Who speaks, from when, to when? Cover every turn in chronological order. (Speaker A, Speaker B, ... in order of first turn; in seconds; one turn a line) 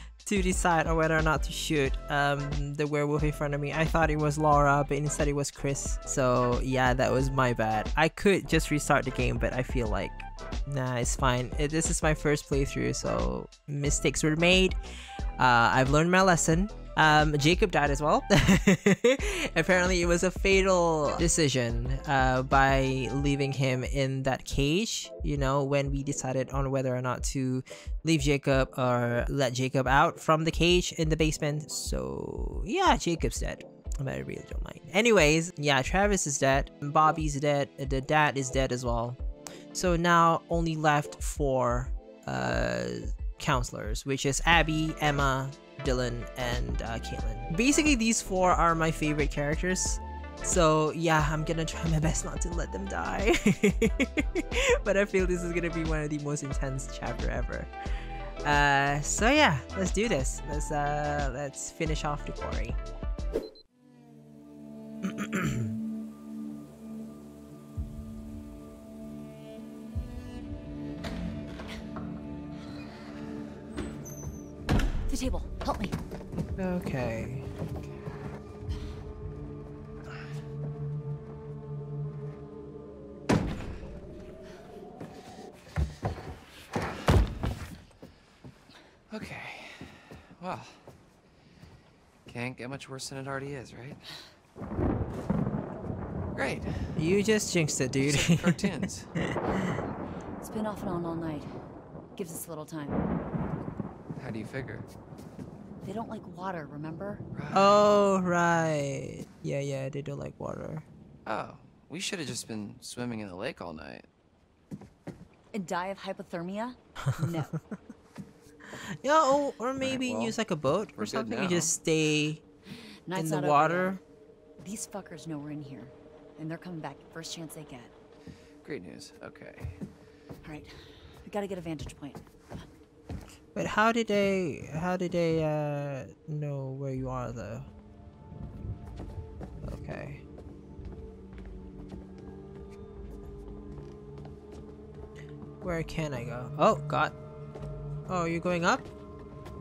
Speaker A: 0.2-14.8
Speaker A: 15.4-39.2
Speaker A: 39.7-57.7
Speaker A: 58.4-62.8
Speaker A: 65.0-65.7
Speaker B: 75.1-75.9
Speaker A: 76.6-77.5
Speaker C: 89.1-90.8
Speaker C: 92.3-94.0
Speaker C: 96.3-97.0
Speaker A: 97.0-99.4
Speaker C: 98.0-99.1
Speaker B: 100.4-101.5
Speaker B: 102.2-103.0
Speaker C: 104.2-104.9
Speaker B: 105.8-107.2
Speaker C: 107.3-107.8
Speaker A: 107.5-110.9
Speaker C: 111.3-114.1
Speaker B: 115.5-117.4
Speaker A: 118.9-122.4
Speaker C: 119.8-120.4
Speaker C: 121.0-121.8
Speaker B: 123.1-124.0
Speaker A: 123.2-124.0
Speaker B: 124.6-127.9
Speaker C: 128.6-129.8
Speaker B: 130.5-130.7
Speaker B: 131.2-132.6
Speaker A: 133.6-137.7
Speaker A: 139.6-140.2
Speaker A: 145.6-147.2
Speaker A: 148.1-148.9